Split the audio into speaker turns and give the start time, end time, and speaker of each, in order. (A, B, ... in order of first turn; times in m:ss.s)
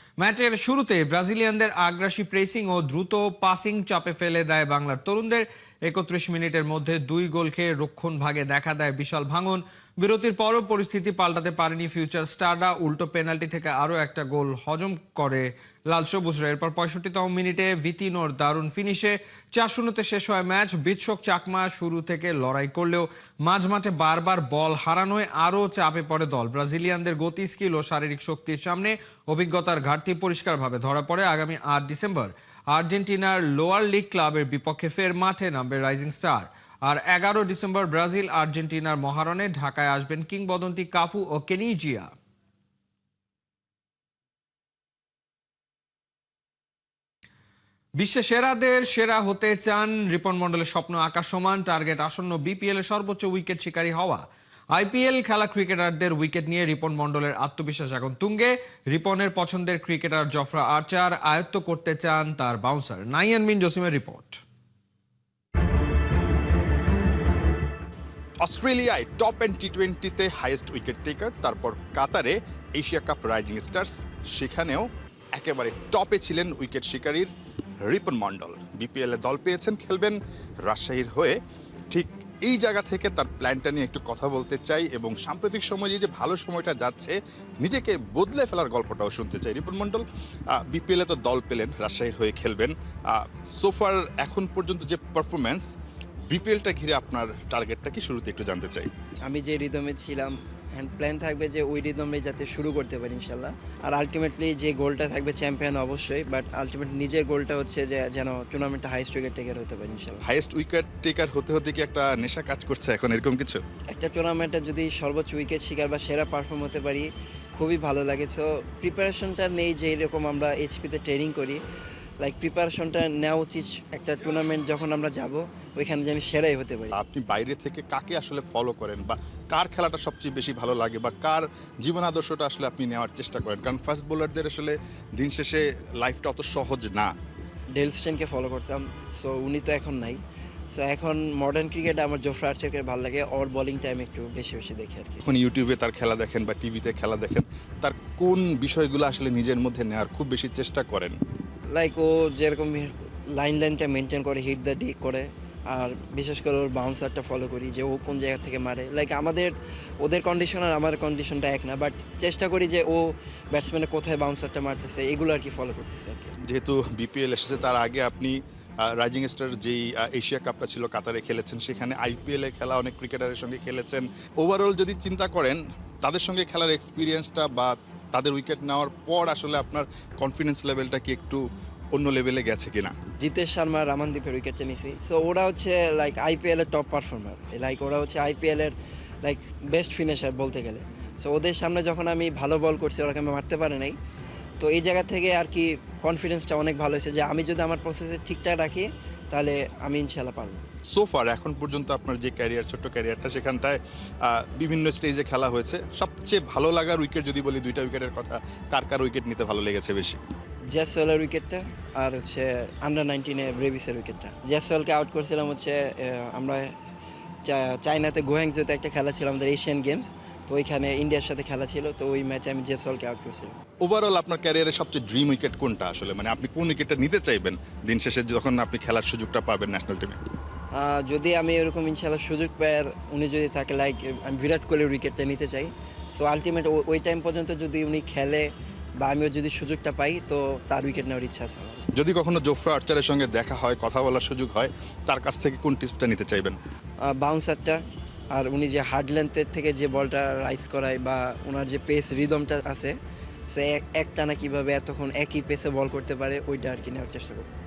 0:00.2-0:42.1 A
0:48.0-1:04.4 A
1:08.4-1:17.3 B
1:17.9-1:21.4 B
1:21.9-1:35.7 B
1:36.3-1:38.9 B
1:39.2-1:50.2 C
1:50.2-1:53.6 B
1:53.9-2:01.6 C
2:02.2-2:06.9 C
2:07.0-2:17.1 B
2:17.8-2:20.2 C
2:20.7-2:25.2 C
2:25.2-2:31.2 B
2:31.7-2:46.3 C
2:46.4-3:01.4 B
3:01.9-3:02.9 B
3:03.2-3:14.0 C
3:14.6-3:20.6 C
3:20.9-3:30.2 B
3:30.7-3:36.7 C
3:37.5-3:43.6 C
3:43.8-3:50.2 B
3:50.8-4:01.8 C
4:02.0-4:06.6 B
4:07.0-4:07.8 C
4:08.3-4:12.9 C
4:13.5-4:17.5 C